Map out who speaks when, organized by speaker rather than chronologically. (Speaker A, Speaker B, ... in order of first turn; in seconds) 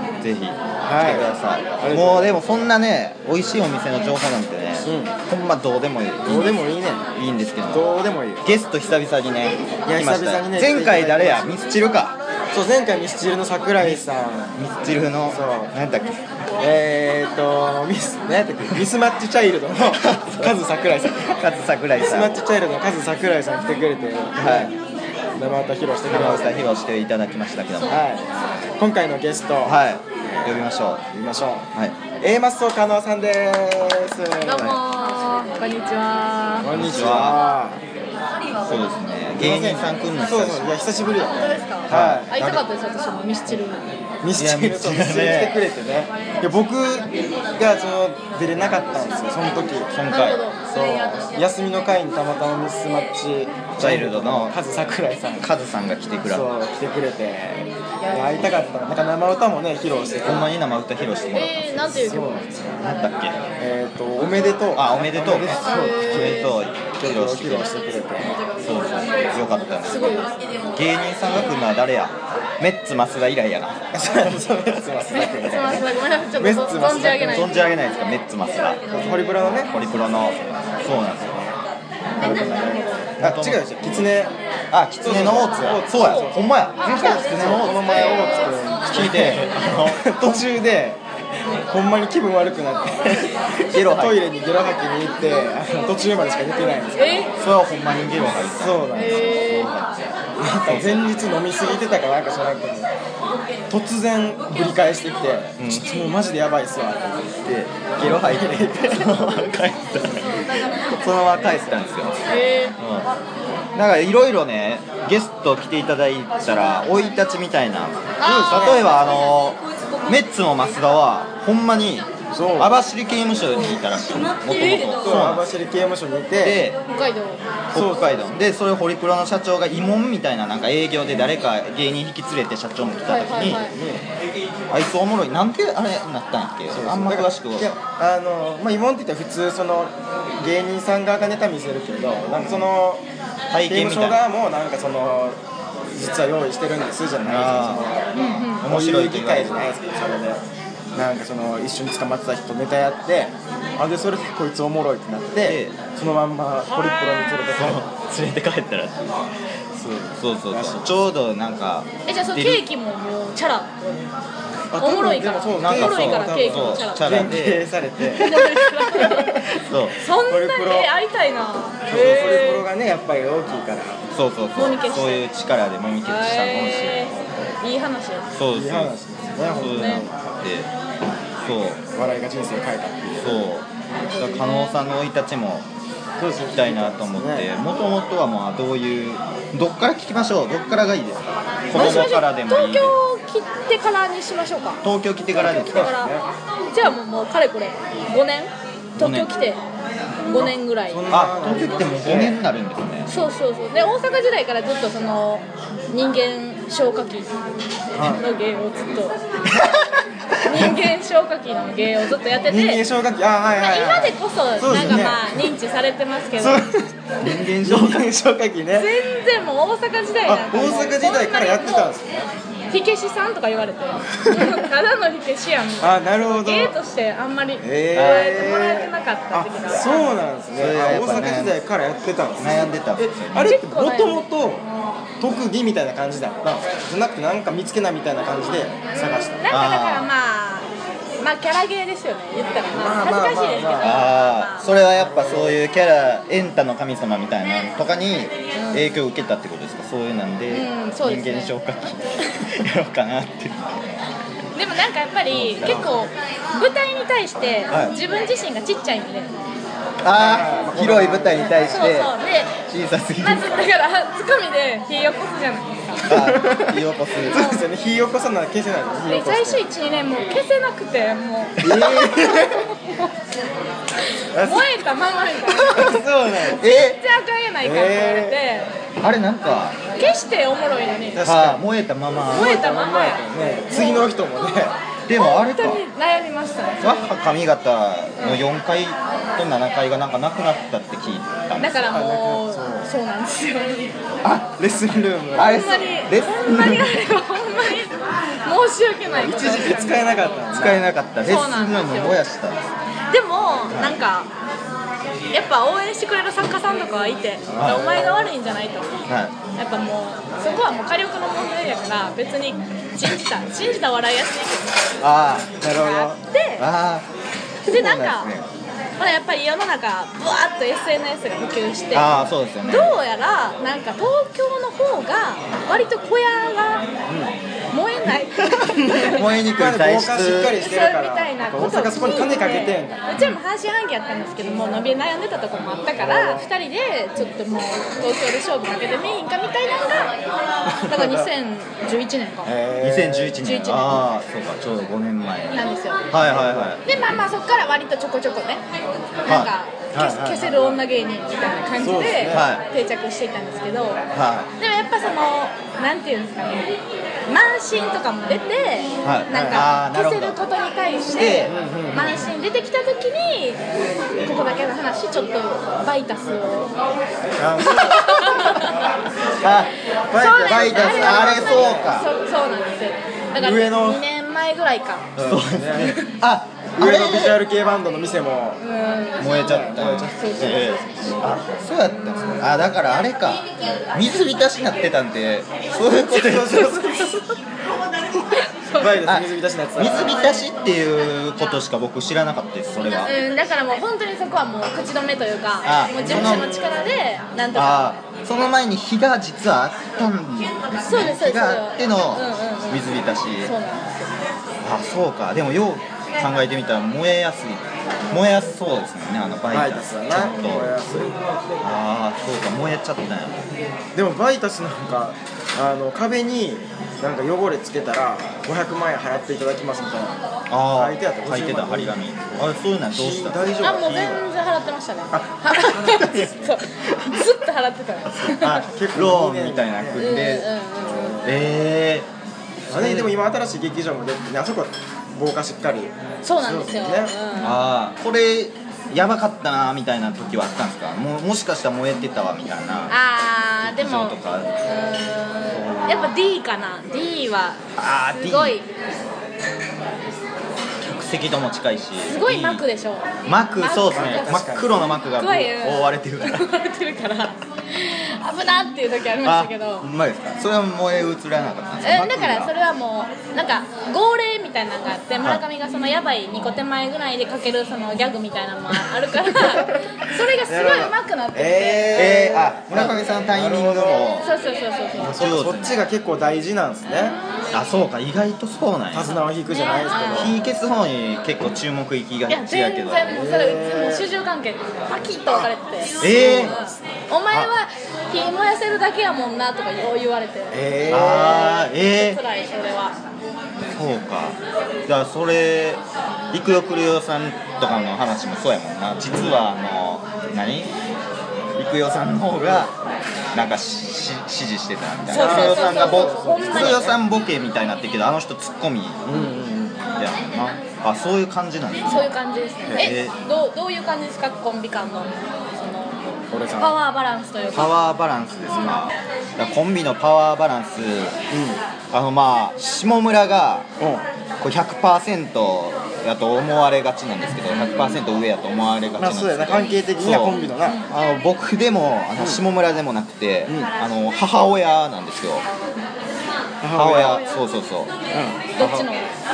Speaker A: 0.2-6.6, 7.2-7.9, 8.4-12.2, 13.8-14.1, 14.6-16.2, 19.8-20.6, 21.4-22.4, 24.4-24.7, 26.1-28.0, 29.6-31.0, 36.7-37.4, 38.6-41.1, 41.9-42.6, 44.3-45.6, 49.9-50.4, 53.8-54.6, 55.4-56.5, 60.2-62.1, 62.8-63.4, 64.7-67.7, 68.6-70.1, 70.7-73.8, 77.2-78.8, 79.4-81.6, 82.2-83.6, 84.7-90.5, 93.7-94.2, 97.4-100.1, 100.7-101.1, 105.6-105.9, 107.5-113.1, 113.8-125.5, 126.4-126.8, 127.7-133.7, 134.7-137.7, 142.3-142.7, 143.5-144.2, 147.2-149.7, 155.4-155.8, 157.5-159.3, 160.2-162.6, 165.6-167.7, 169.6-169.9, 171.9-172.7, 174.1-177.1, 178.3-178.9, 179.5-180.7, 181.4-181.8, 183.2-185.7, 186.5-192.9, 194.8-196.0, 199.0-199.3, 201.1-203.1, 214.7-215.1, 217.2-218.1, 227.9-228.5, 230.5-231.5, 232.4-233.6, 239.5-240.1, 243.8-253.8, 255.3-255.9, 257.7-257.9, 260.0-262.1, 262.7-263.7, 266.1-267.4, 271.6-272.3, 276.5-277.0, 279.0-279.8, 281.2-282.6, 285.1-285.8, 286.8-291.9, 294.2-294.6, 295.4-296.9, 300.5-302.6, 303.7-304.0, 307.6-307.8, 309.1-309.4, 315.0-315.5, 316.6-317.1, 317.6-318.5, 321.9-322.9, 329.0-330.6, 342.8-346.8, 349.3-349.5, 352.3-352.6, 354.1-354.5, 359.0-360.4, 361.1-361.6, 367.6-368.7, 369.4-369.7, 370.4-372.1, 375.2-377.4, 379.2-387.0, 389.0-393.1, 395.6-396.5, 397.5-403.5, 404.6-411.0, 411.6-413.5, 420.5-424.2, 425.9-426.3, 426.8-427.2, 428.1-430.5, 431.2-432.1, 432.7-433.1, 437.4-442.9, 443.6-444.5, 445.5-446.1, 447.8-448.6, 450.8-452.6, 453.3-456.5, 459.2-462.5, 470.5-470.9, 471.9-474.3, 475.1-475.8, 477.5-479.2, 480.1-483.1, 486.0-486.5, 490.9-492.2, 493.7-500.7, 501.6-502.8, 503.4-509.1, 510.0-512.0, 512.8-513.1, 517.5-521.2, 521.9-523.7, 524.4-535.5, 536.7-537.9, 538.6-538.9
Speaker B: 0.8-2.4, 4.8-5.1, 6.2-7.0, 7.7-8.5, 9.9-11.6, 12.5-14.6, 15.3-15.7, 16.6-21.4, 22.0-24.7, 25.4-26.7, 27.9-29.8, 31.1-31.7, 32.2-34.8, 36.6-37.8, 39.4-42.3, 44.2-49.9, 50.7-55.5, 56.3-60.5, 61.9-62.8, 63.6-68.4, 73.9-77.5, 78.9-79.7, 82.2-84.3, 85.0-91.0, 91.7-97.3, 98.5-99.3, 100.4-102.9, 103.7-107.2, 108.0-109.4, 118.2-118.9, 122.3-122.8, 125.0-126.6, 127.7-128.3, 133.5-134.0, 136.7-143.0, 143.7-145.4, 145.9-148.1, 148.7-150.4, 150.9-157.9, 159.7-160.9, 164.7-169.6, 170.2-170.9, 171.9-174.0, 177.2-177.5, 178.5-180.1, 181.9-183.4, 186.2-187.5, 191.7-192.2, 195.3-196.3, 200.3-202.4, 207.9-208.2, 210.4-210.7, 212.5-215.5, 216.4-218.9, 220.2-222.3, 224.2-224.7, 225.8-226.8, 227.6-234.6, 235.2-239.4, 242.7-244.0, 244.9-245.6, 260.1-261.9, 266.1-269.6, 271.6-272.7, 274.3-274.9, 275.6-276.6, 277.6-278.4, 281.1-281.6, 282.3-284.8, 291.9-292.9, 294.6-295.6, 299.1-300.9, 307.5-308.3, 315.6-316.2, 327.1-327.3, 328.8-333.2, 336.0-336.5, 340.7-341.3, 342.4-343.4, 346.2-346.8, 349.9-350.8, 351.8-352.5, 359.3-359.7, 361.5-362.3, 367.4-368.0, 370.1-372.1, 373.4-374.0, 375.2-376.0, 376.8-378.6, 379.4-381.4, 385.9-387.2, 388.7-390.2, 396.0-396.7, 409.5-411.2, 413.9-420.2, 420.7-423.7, 425.1-426.6, 428.6-430.1, 430.8-431.5, 432.7-437.1, 453.8-454.9, 471.3-474.1, 475.0-477.2, 478.9-480.4, 483.1-484.1, 486.0-486.7, 490.5-491.5, 505.1-507.0, 509.1-509.8, 512.7-512.9, 516.3-516.8, 521.3-521.6, 523.8-524.0, 529.0-530.8, 533.5-533.7, 536.6-537.2, 538.1-538.5
Speaker C: 34.4-36.7, 41.2-43.8, 50.1-51.3, 61.3-62.5, 65.6-66.5, 69.9-70.4, 75.1-77.7, 82.2-83.0, 86.0-88.7, 96.9-97.3, 99.0-99.7, 112.3-112.8, 118.2-118.8, 124.5-125.2, 126.9-127.4, 133.1-133.7, 148.1-148.7, 156.7-157.3, 162.1-164.1, 164.8-167.4, 168.1-172.6, 174.6-175.2, 176.1-178.3, 179.6-180.1, 184.1-184.8, 191.7-194.8, 195.6-196.1, 196.7-199.6, 200.3-201.0, 203.1-207.3, 208.0-209.2, 210.4-212.8, 213.6-216.7, 218.7-221.9, 222.7-230.2, 233.4-234.3, 238.9-240.7, 241.2-244.6, 248.6-249.0, 250.5-251.6, 254.6-259.3, 261.7-262.5, 263.2-266.1, 267.3-267.6, 269.1-273.1, 274.0-278.7, 280.0-281.2, 282.3-284.3, 285.2-287.1, 291.6-294.0, 295.4-300.5, 301.2-302.2, 303.1-304.3, 305.3-308.9, 309.6-314.8, 315.7-316.7, 317.7-318.3, 319.0-326.9, 327.7-329.2, 330.6-340.2, 340.8-342.5, 343.4-344.0, 345.5-346.1, 346.8-348.6, 349.2-354.0, 354.6-356.8, 357.3-366.8, 367.6-368.9, 370.1-375.1, 375.7-376.1, 378.6-379.5, 380.1-381.2, 388.3-389.1, 389.9-390.5, 393.0-397.9, 400.7-402.9, 403.4-404.3, 423.6-428.7, 430.0-431.3, 436.2-437.6, 442.9-448.7, 452.1-454.5, 455.1-459.9, 461.8-472.3, 474.1-475.2, 479.5-480.4, 482.3-493.0, 505.1-506.9, 511.9-517.8, 530.2-530.9, 537.0-537.4, 538.6-539.1